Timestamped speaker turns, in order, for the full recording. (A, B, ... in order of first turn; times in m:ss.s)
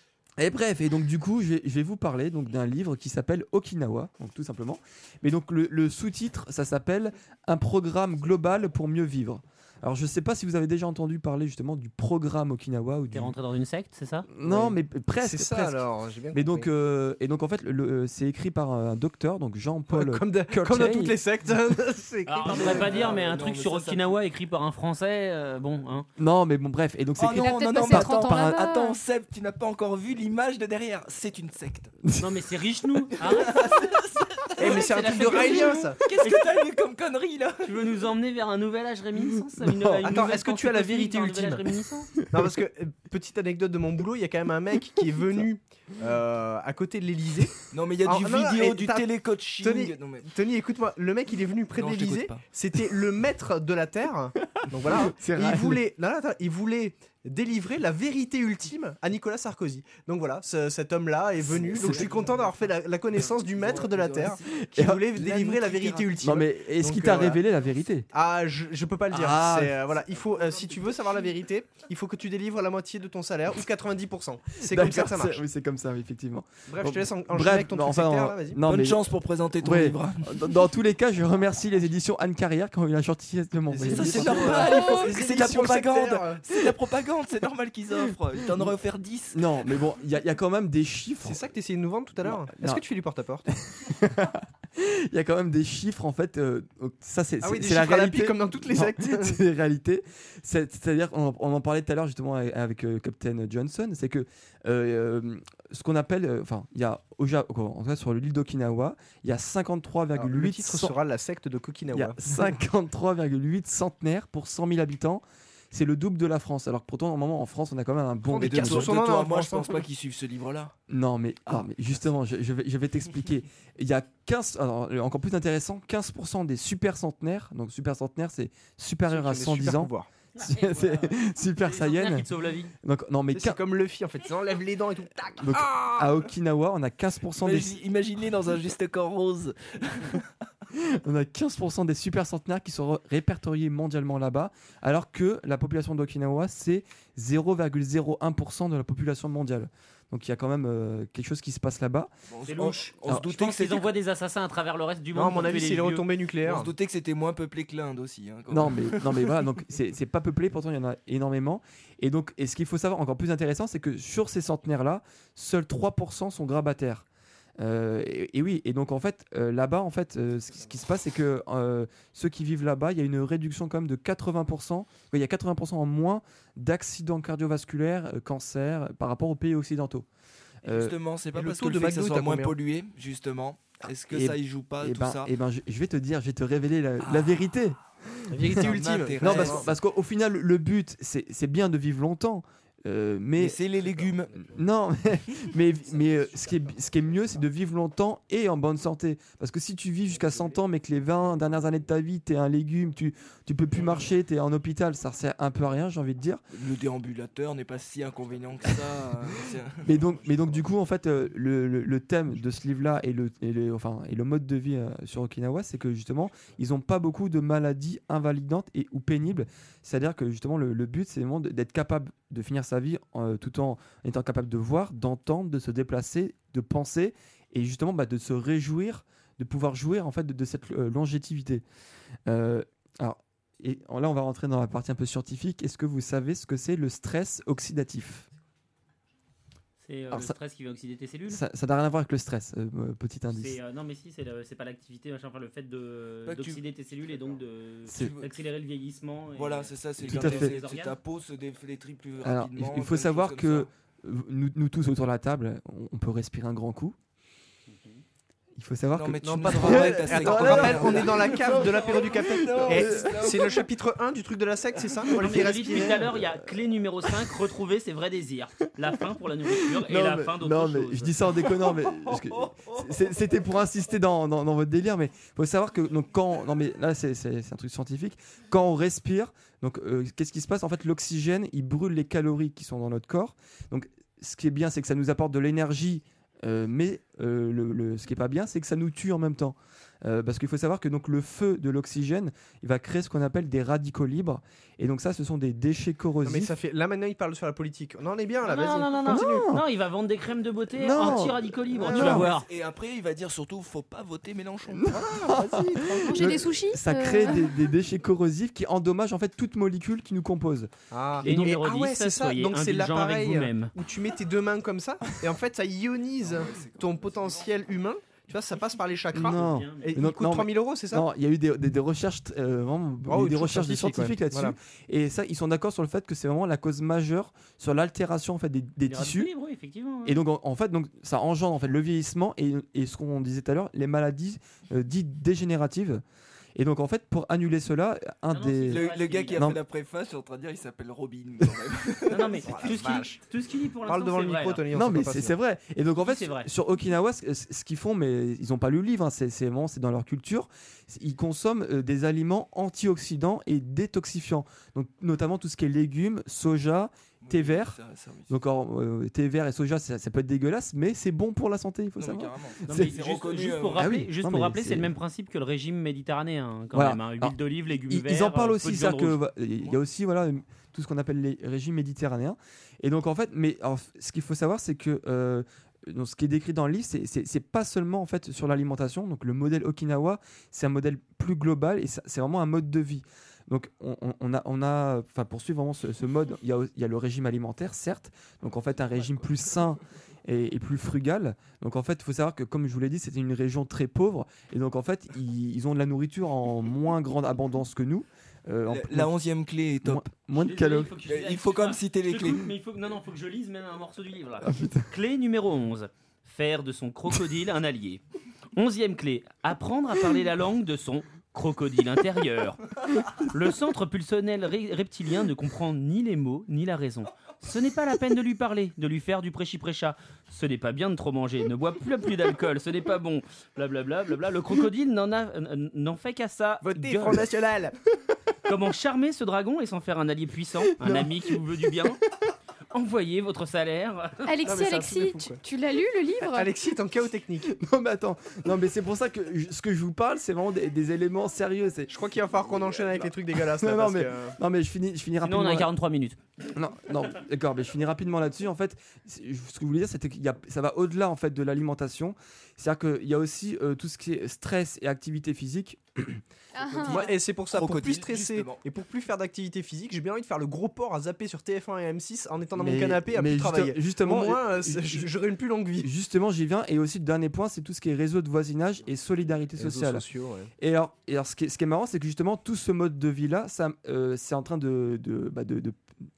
0:00.4-0:13.3 A
0:13.1-0:14.3 B
0:14.3-0:21.2 A
0:14.4-0:16.7 C
0:19.9-0:23.1 C
0:22.3-0:26.1 B
0:22.4-0:24.2 D
0:26.2-0:29.0 A
0:27.2-0:31.9 D
0:27.3-0:29.0 E
0:32.2-0:33.9 B
0:33.2-0:37.9 D
0:34.6-0:36.0 C
0:34.8-0:35.4 B
0:36.2-0:36.6 B
0:37.6-0:42.1 B
0:39.4-0:40.0 A
0:40.0-0:41.6 C
0:42.2-0:42.4 A
0:42.3-0:49.1 C
0:47.7-0:50.3 D
0:49.6-1:07.4 C
0:51.8-0:52.4 D
0:54.6-0:55.8 A
1:01.4-1:02.6 D
1:01.5-1:02.1 A
1:03.2-1:04.6 D
1:04.6-1:08.1 A
1:05.2-1:06.0 D
1:08.1-1:15.4 C
1:09.1-1:09.8 A
1:14.6-1:19.1 A
1:16.7-1:18.6 C
1:18.6-1:20.6 D
1:19.6-1:24.9 A
1:23.7-1:26.4 C
1:23.8-1:29.5 D
1:28.0-1:28.7 A
1:29.3-1:31.4 A
1:31.2-1:33.5 C
1:32.2-1:32.8 A
1:33.5-1:50.9 A
1:37.4-1:39.4 C
1:50.2-1:52.5 C
1:51.9-1:59.0 A
1:58.3-1:59.8 C
1:58.4-2:00.7 D
2:00.9-2:12.3 A
2:09.1-2:10.1 C
2:10.4-2:12.7 B
2:12.8-2:13.6 A
2:13.3-2:16.2 C
2:15.4-2:17.8 A
2:17.4-2:20.3 D
2:20.7-2:32.1 A
2:32.3-2:34.0 D
2:32.5-2:36.0 B
2:35.1-2:36.7 C
2:36.4-2:39.4 D
2:38.5-2:47.0 A
2:47.6-3:00.0 A
3:00.6-3:00.9 A
3:00.6-3:05.3 D
3:01.3-3:02.5 C
3:04.1-3:13.6 A
3:07.0-3:07.4 D
3:08.3-3:09.7 C
3:08.6-3:09.7 D
3:13.4-3:14.6 D
3:13.8-3:14.5 C
3:14.5-3:26.4 A
3:26.5-3:30.6 D
3:29.8-3:51.6 A
3:52.2-3:58.3 A
3:59.8-4:01.4 B
4:01.3-4:03.6 A
4:03.3-4:11.0 B
4:06.2-4:06.6 D
4:07.9-4:08.1 A
4:07.9-4:08.4 D
4:09.3-4:13.7 D
4:10.0-4:10.5 A
4:12.2-4:17.0 A
4:17.7-4:18.0 B
4:18.6-4:21.6 A
4:18.9-4:23.7 D
4:19.2-4:26.0 C
4:22.2-4:23.4 A
4:24.9-4:25.4 D
4:25.2-4:31.1 B
4:29.5-4:56.5 A
4:31.6-4:33.0 D
4:56.2-4:59.5 C
4:58.4-5:02.5 B
4:59.0-4:59.6 A
5:00.7-5:02.3 A
5:01.7-5:02.2 C
5:02.0-5:05.0 D
5:04.7-5:10.7 A
5:04.9-5:06.4 C
5:05.8-5:07.6 E
5:10.9-5:21.1 C
5:11.2-5:13.7 B
5:16.2-5:17.3 D
5:19.1-5:29.3 A
5:19.2-5:20.0 B
5:23.1-5:24.6 C
5:28.8-5:30.2 B
5:30.0-5:36.0 A
5:36.6-5:39.6 A
5:38.3-5:39.5 B
5:38.6-5:42.8 D
5:42.1-5:44.6 B
5:42.5-5:43.2 C
5:43.9-5:45.3 C
5:44.7-5:57.8 A
5:46.0-5:46.5 B
5:57.2-5:58.3 D
5:58.3-6:02.9 A
6:02.0-6:03.9 D
6:02.7-6:09.2 B
6:03.8-6:04.9 A
6:06.7-6:39.1 A
6:38.7-6:40.1 D
6:39.8-6:40.9 A
6:40.3-6:48.0 B
6:41.0-6:42.5 D
6:44.4-6:44.9 A
6:48.5-6:52.6 B
6:53.1-7:07.3 B
7:06.6-7:07.7 C
7:08.4-7:12.0 B
7:10.6-7:11.9 A
7:12.7-7:14.3 B
7:14.2-7:16.5 E
7:14.4-7:15.4 C
7:16.3-7:17.5 C
7:17.4-7:21.9 A
7:21.9-7:24.4 C
7:23.4-7:25.7 A
7:25.2-7:26.2 B
7:26.5-7:36.2 A
7:36.5-7:37.2 E
7:36.8-7:38.6 D
7:36.8-7:45.9 C
7:42.6-7:45.1 A
7:45.8-7:50.0 A
7:49.6-7:50.5 C
7:50.6-7:55.8 A